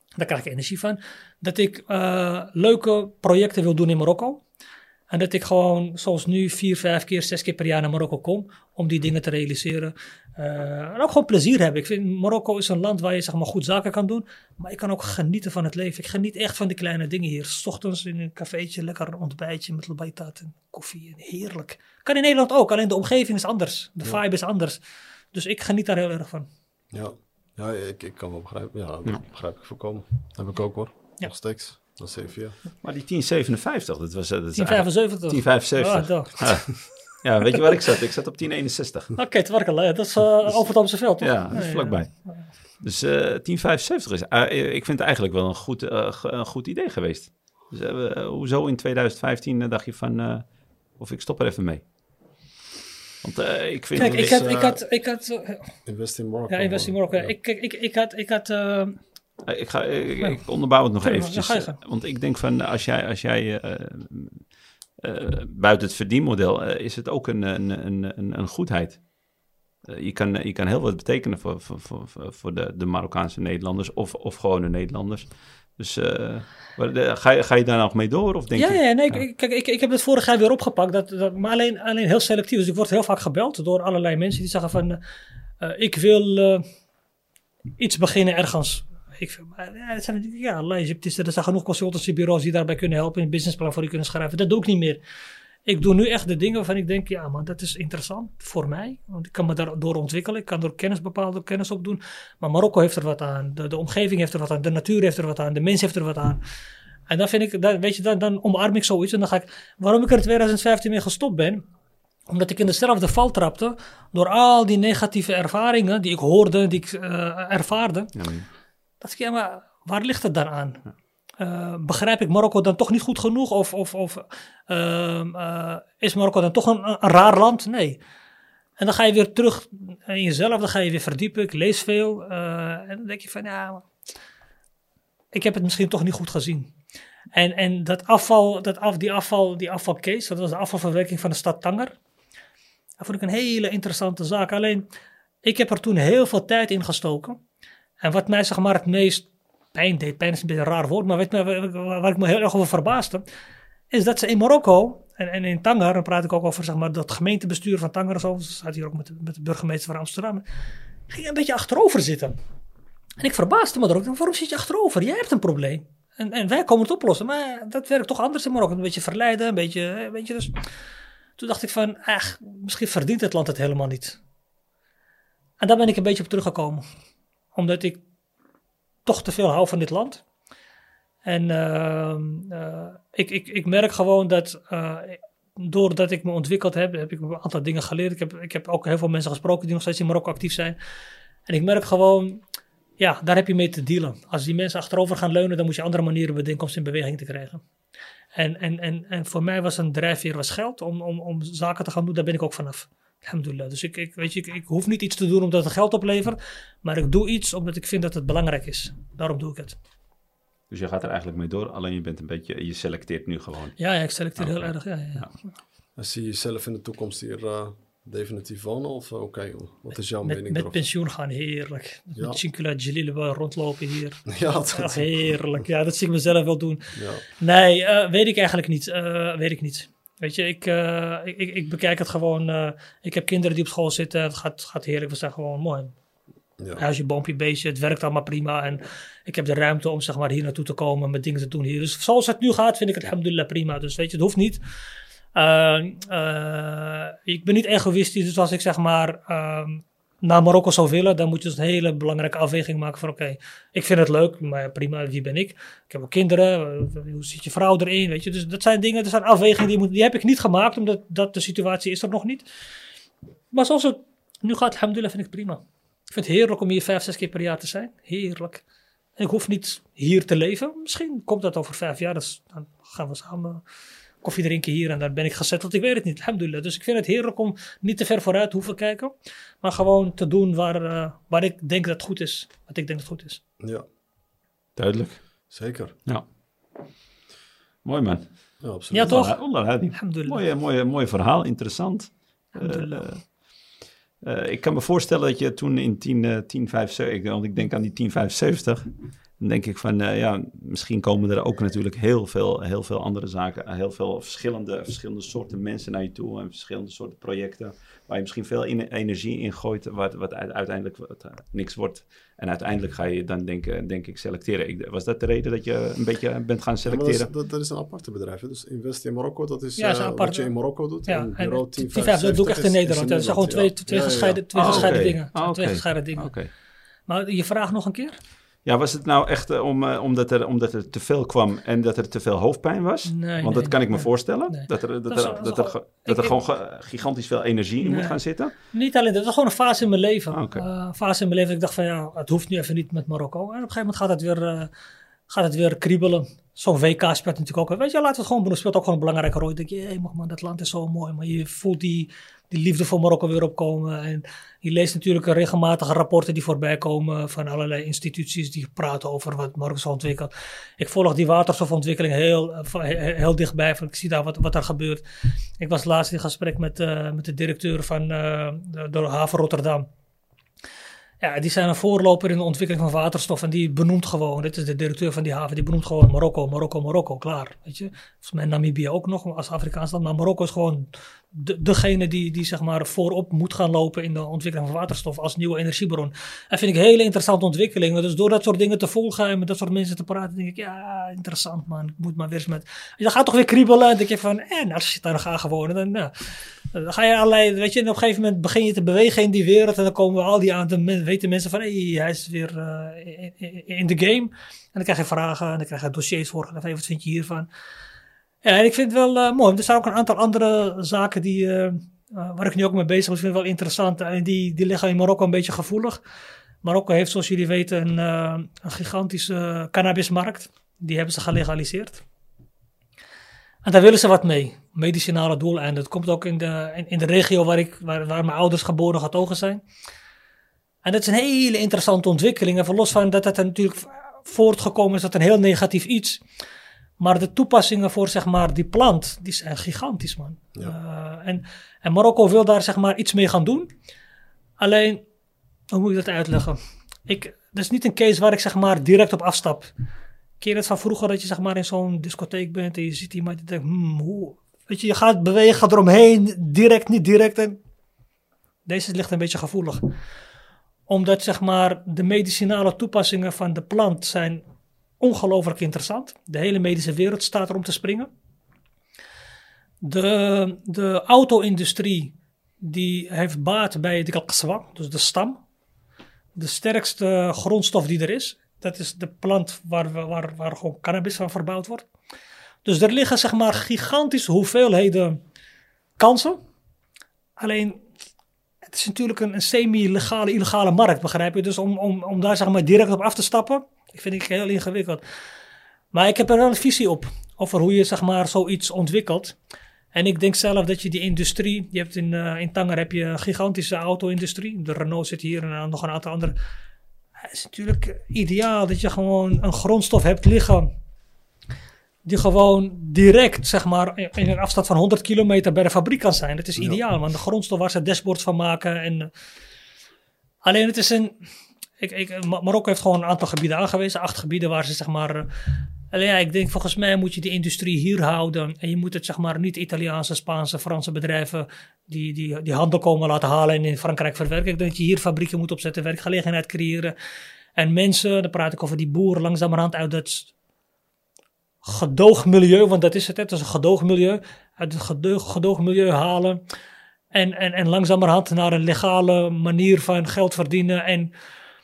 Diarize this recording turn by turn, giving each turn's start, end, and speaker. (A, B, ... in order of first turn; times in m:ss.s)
0:00.2-0:04.4 A
0:05.1-0:24.8 A
0:25.3-0:26.5 A
0:26.9-0:32.6 B
0:32.8-0:39.2 C
0:34.6-0:36.8 A
0:39.2-0:42.5 A
0:41.2-0:51.8 C
0:53.2-0:54.4 C
0:54.0-0:55.8 A
0:54.0-0:54.8 B
0:55.8-0:57.3 B
0:56.5-0:59.0 A
0:59.4-1:09.1 C
1:00.9-1:01.8 A
1:09.8-1:19.2 C
1:18.6-1:25.0 A
1:25.6-1:26.6 A
1:27.8-1:35.0 A
1:35.6-1:46.4 A
1:47.1-1:51.6 A
1:52.3-1:58.1 A
1:58.1-1:58.4 C
1:59.0-2:00.8 A
2:01.4-2:08.0 A
2:08.8-2:13.9 A
2:15.3-2:16.7 A
2:17.3-2:22.0 A
2:23.0-2:24.8 A
2:25.4-2:27.4 A
2:28.0-2:33.2 A
2:33.9-2:40.4 A
2:41.1-2:42.4 A
2:43.2-2:50.6 A
2:51.4-2:54.2 A
2:55.6-2:56.8 A
2:57.5-2:58.0 A
2:59.0-3:00.2 A
3:01.2-3:10.8 A
3:11.5-3:12.4 A
3:13.0-3:17.6 A
3:18.4-3:29.8 A
3:30.7-3:33.8 C
3:33.8-3:35.3 A
3:34.4-3:35.3 C
3:36.0-3:40.8 B
3:40.2-3:55.9 A
3:44.3-3:45.4 B
3:46.9-3:47.2 B
3:56.8-4:04.6 A
4:05.3-4:22.4 A
4:23.5-4:28.6 A
4:29.2-4:33.6 A
4:34.2-4:43.4 A
4:43.6-4:43.8 B
4:44.8-4:45.4 C
4:45.5-4:45.9 B
4:47.8-5:17.3 C
4:48.6-4:49.3 B
4:48.9-4:50.4 A
4:52.5-4:53.2 A
5:16.8-5:25.1 B
5:19.8-5:26.4 A
5:24.5-5:26.5 C
5:27.1-5:28.2 A
5:28.6-5:38.5 C
5:33.1-5:36.4 A
5:37.8-5:44.7 A
5:40.3-5:40.6 C
5:45.3-6:05.0 A
6:05.6-6:09.9 A
6:11.2-6:47.5 A
6:48.4-6:56.0 A
6:56.6-7:02.0 A
7:03.6-7:09.6 A
7:10.8-7:16.2 A
7:17.0-7:23.7 A
7:24.6-7:25.0 A
7:25.7-7:29.7 A
7:30.4-7:37.6 A
7:38.6-7:39.8 A
7:40.9-7:44.4 A
7:45.0-7:48.1 A
7:49.8-7:55.4 A
7:56.4-8:01.9 A
8:02.6-8:05.2 A
8:06.0-8:06.4 A
8:07.4-8:07.8 A
8:08.6-8:15.0 A
8:15.9-8:19.4 A
8:19.9-8:26.3 A
8:27.2-8:30.7 A
8:32.0-8:39.1 A
8:40.4-8:41.1 A
8:41.8-8:45.3 A
8:45.9-8:56.9 A
8:57.6-9:00.3 A
9:01.6-9:06.4 A
9:07.1-9:11.1 A